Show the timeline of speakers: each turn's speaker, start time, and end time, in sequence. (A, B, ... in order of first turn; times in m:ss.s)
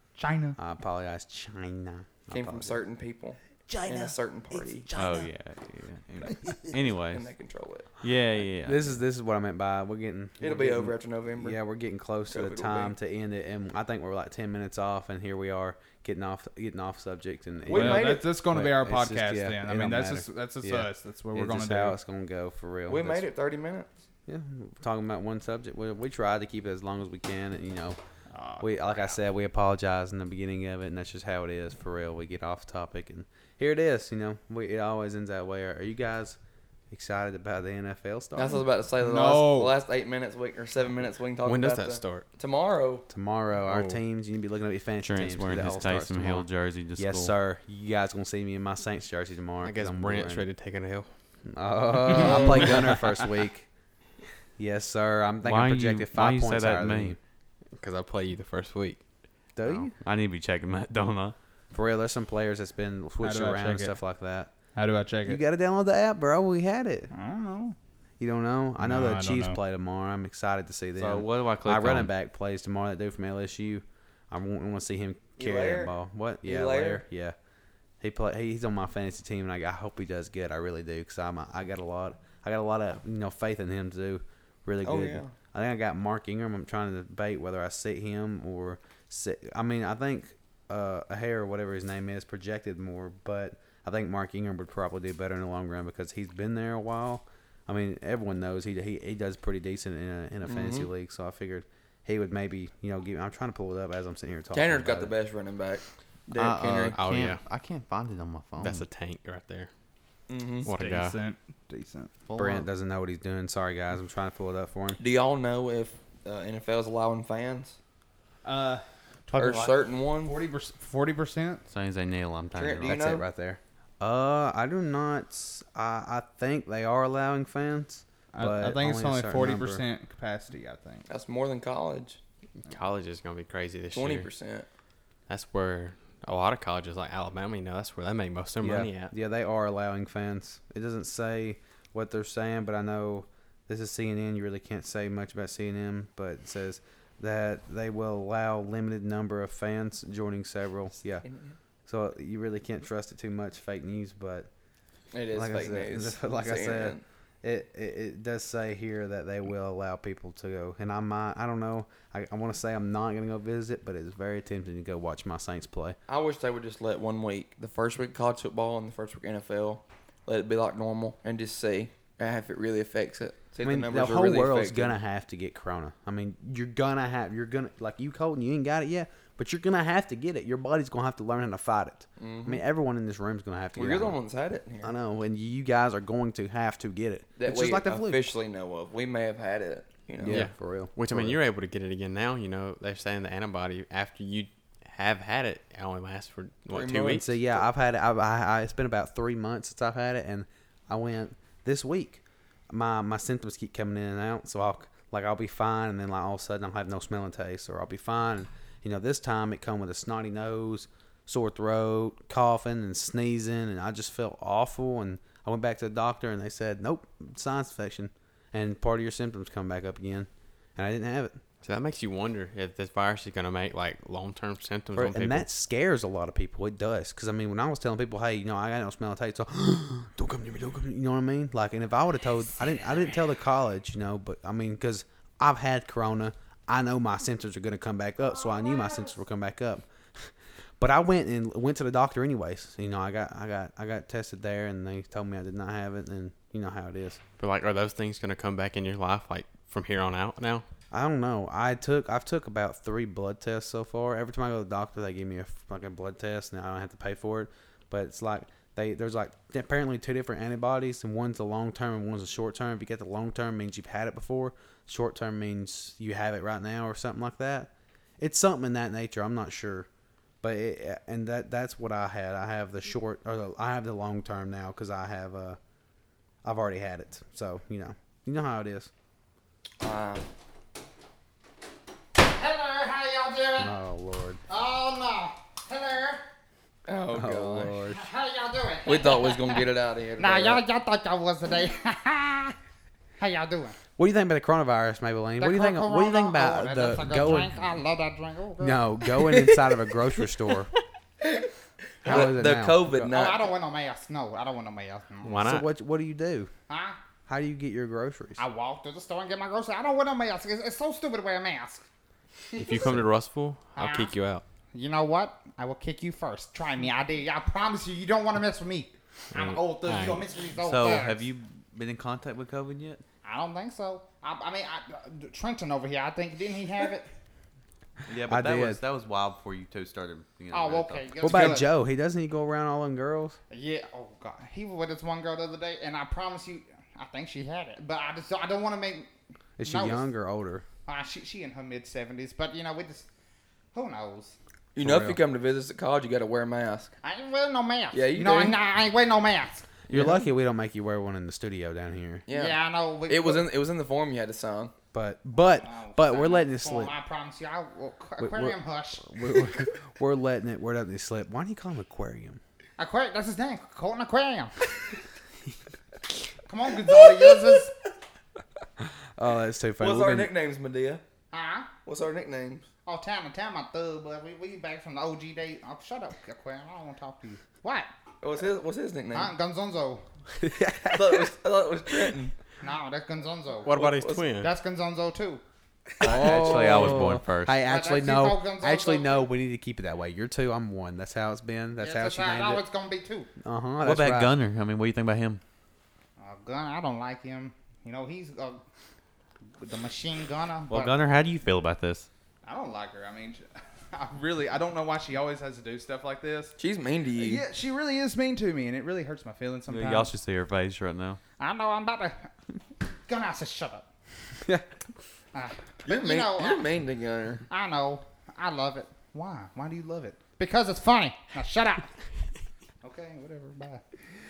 0:00.2-0:00.6 A
0:00.6-0:02.8 B
0:02.3-0:04.9 C
0:03.7-0:04.1 B
0:04.9-0:05.2 B
0:05.0-0:07.3 D
0:07.1-0:07.9 C
0:08.0-0:09.0 D
0:08.6-0:23.3 B
0:10.4-0:11.6 C
0:12.3-0:12.9 C
0:17.7-0:18.3 C
0:17.7-0:22.0 A
0:22.9-0:23.9 C
0:24.3-0:28.0 B
0:28.3-0:29.2 A
0:28.6-0:36.4 B
0:36.9-0:38.6 B
0:38.4-0:43.1 C
0:39.0-0:39.8 A
0:41.4-0:42.2 E
0:43.1-0:50.4 B
0:43.7-0:44.0 E
0:45.0-0:47.3 D
0:49.6-0:51.1 E
0:51.5-0:53.7 B
0:52.1-0:53.0 A
0:52.1-0:52.7 C
0:54.6-0:57.2 B
0:55.4-0:57.2 D
0:57.8-0:59.0 E
0:59.6-0:59.9 B
0:59.6-1:01.4 D
1:01.7-1:04.5 B
1:03.2-1:04.0 A
1:04.7-1:05.4 A
1:05.2-1:07.1 B
1:07.1-1:07.8 A
1:08.2-1:17.4 B
1:08.8-1:09.6 A
1:11.0-1:12.1 D
1:15.4-1:17.0 C
1:18.0-1:45.1 B
1:24.8-1:25.3 C
1:40.4-1:40.9 C
1:44.5-1:47.0 C
1:46.3-1:48.8 D
1:46.9-1:47.4 E
1:48.6-1:49.7 E
1:50.3-1:50.7 C
1:50.6-1:52.1 A
1:50.6-1:51.2 E
1:52.2-1:52.7 D
1:52.4-1:55.0 B
1:55.0-1:57.8 C
1:58.4-2:01.6 A
1:59.3-2:00.4 C
2:01.7-2:03.1 D
2:02.5-2:03.2 C
2:02.8-2:09.8 B
2:08.3-2:11.1 A
2:11.1-2:12.2 C
2:12.6-2:14.3 E
2:13.9-2:14.7 C
2:15.3-2:19.1 E
2:18.6-2:31.2 B
2:31.2-2:31.6 C
2:31.8-2:34.5 B
2:35.1-2:37.0 C
2:35.3-2:46.0 B
2:46.1-2:55.0 C
2:53.6-3:04.2 B
3:02.2-3:02.6 C
3:03.7-3:04.9 C
3:04.8-3:08.3 B
3:07.4-3:10.4 C
3:10.2-3:11.4 B
3:10.3-3:17.3 E
3:16.7-3:17.6 C
3:17.1-3:41.4 B
3:41.6-3:45.5 E
3:44.9-4:07.2 B
4:07.4-4:10.6 E
4:10.9-4:29.9 B
4:30.4-4:35.6 B
4:36.4-4:38.9 B
4:39.8-4:40.2 C
4:42.2-4:43.7 F
4:43.6-4:44.4 B
4:44.5-4:46.2 F
4:46.8-4:47.7 C
4:47.1-4:48.1 B
4:47.9-4:49.6 F
4:48.8-4:50.6 C
4:50.2-4:52.6 F
4:53.2-4:53.8 F
4:54.0-4:57.5 B
4:55.4-4:58.9 F
4:58.6-5:00.7 B
4:59.2-4:59.7 C
5:01.2-5:01.5 C
5:02.0-5:03.5 C
5:02.0-5:03.1 B
5:02.0-5:02.4 F
5:03.1-5:05.5 F
5:05.2-5:05.7 E
5:05.4-5:06.5 B
5:06.7-5:07.0 F
5:07.3-5:08.4 B
5:08.4-5:11.8 F
5:12.5-5:13.0 F
5:12.6-5:14.4 E
5:13.8-5:14.1 F
5:14.7-5:21.2 F
5:19.3-5:20.2 E
5:20.6-5:23.0 D
5:23.2-5:27.1 F
5:28.0-5:31.6 D
5:28.2-5:28.8 B
5:30.5-5:31.7 F
5:31.2-5:33.4 B
5:33.5-5:39.1 F
5:39.6-5:40.6 B
5:39.6-5:40.1 F
5:40.8-5:43.1 F
5:43.7-5:44.4 F
5:44.7-5:46.9 C
5:44.8-5:45.2 B
5:47.0-5:49.8 F
5:47.9-5:48.6 C
5:49.9-5:52.3 B
5:49.9-5:50.2 C
5:52.3-5:54.7 C
5:52.3-5:53.5 F
5:54.9-5:56.9 B
5:55.6-5:59.6 F
5:58.2-6:02.4 B
6:02.8-6:04.5 F
6:06.4-6:07.7 F
6:08.8-6:10.3 B
6:09.8-6:11.0 C
6:11.3-6:11.7 F
6:11.8-6:12.7 C
6:12.8-6:17.9 F
6:18.2-6:19.3 C
6:19.1-6:20.0 F
6:20.4-6:21.3 B
6:20.9-6:22.3 C
6:22.6-6:23.8 F
6:23.6-6:24.5 E
6:23.7-6:24.3 C
6:24.4-6:25.4 F
6:26.0-6:27.2 C
6:26.0-6:32.6 B
6:26.0-6:27.6 D
6:27.6-6:29.3 F
6:31.8-6:33.3 F
6:33.4-6:34.3 B
6:33.8-6:35.4 D
6:36.2-6:38.6 F
6:39.6-6:40.9 F
6:40.7-6:42.1 D
6:42.4-6:46.6 A
6:46.6-6:47.4 C
6:47.2-6:50.1 A
6:49.7-6:51.2 D
6:51.4-6:52.3 F
6:53.1-6:53.8 F
6:55.3-6:56.7 F
6:55.8-6:57.4 C
6:57.5-7:01.9 F
7:02.8-7:03.8 F